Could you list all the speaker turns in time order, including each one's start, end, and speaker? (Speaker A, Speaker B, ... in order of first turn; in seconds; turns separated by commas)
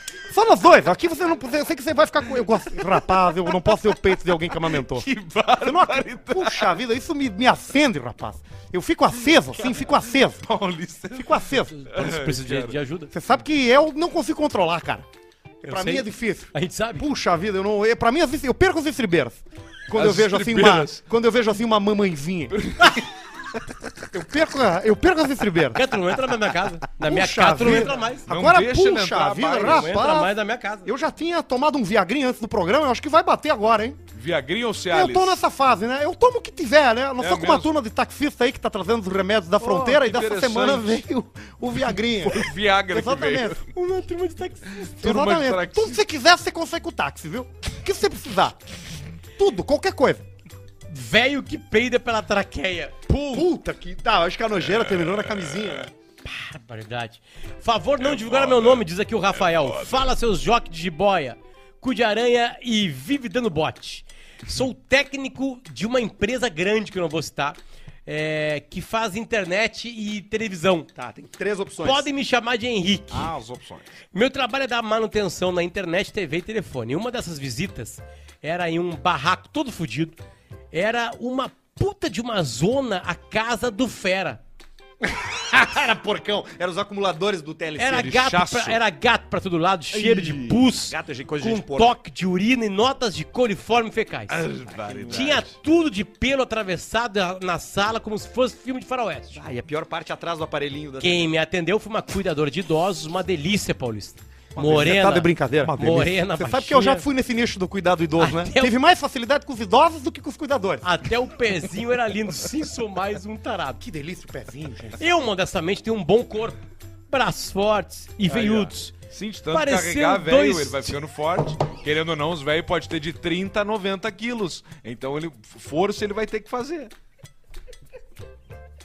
Speaker A: 0.3-5.1, Speaker B: 2.9-3.8, Speaker B: 4.5-6.8, Speaker A: 5.6-10.4, Speaker B: 9.6-12.8, Speaker A: 11.1-11.7, Speaker C: 11.7-13.1, Speaker A: 13.1-15.0, Speaker A: 15.6-22.9, Speaker C: 15.7-17.0, Speaker B: 19.9-21.0, Speaker B: 22.5-23.7, Speaker A: 24.1-25.9, Speaker C: 25.7-28.3, Speaker A: 27.0-30.3, Speaker B: 27.6-29.9, Speaker C: 29.5-30.9, Speaker A: 30.8-34.0, Speaker B: 34.1-35.4, Speaker A: 34.9-43.6, Speaker B: 37.2-37.7, Speaker B: 39.6-41.0, Speaker B: 41.9-43.7, Speaker C: 43.7-45.1, Speaker B: 44.7-46.0, Speaker A: 45.0-48.6, Speaker A: 49.4-50.2, Speaker C: 50.9-53.0, Speaker B: 53.1-53.5, Speaker A: 53.3-55.9, Speaker B: 54.6-55.8, Speaker C: 56.2-70.9, Speaker B: 58.0-60.1, Speaker A: 70.9-72.0, Speaker C: 71.8-73.3, Speaker B: 73.1-73.9, Speaker C: 74.1-80.2, Speaker C: 80.7-84.4, Speaker A: 85.0-88.1, Speaker C: 87.8-94.5, Speaker B: 87.9-88.8, Speaker B: 89.9-90.7, Speaker A: 90.7-92.0, Speaker B: 94.3-95.5, Speaker A: 94.7-95.4, Speaker C: 95.1-99.4, Speaker A: 99.3-101.2, Speaker C: 101.0-107.1, Speaker A: 104.5-110.8, Speaker C: 108.2-108.7, Speaker C: 110.8-113.8, Speaker A: 113.8-115.0, Speaker C: 115.0-118.9, Speaker B: 118.2-126.9, Speaker C: 119.5-121.0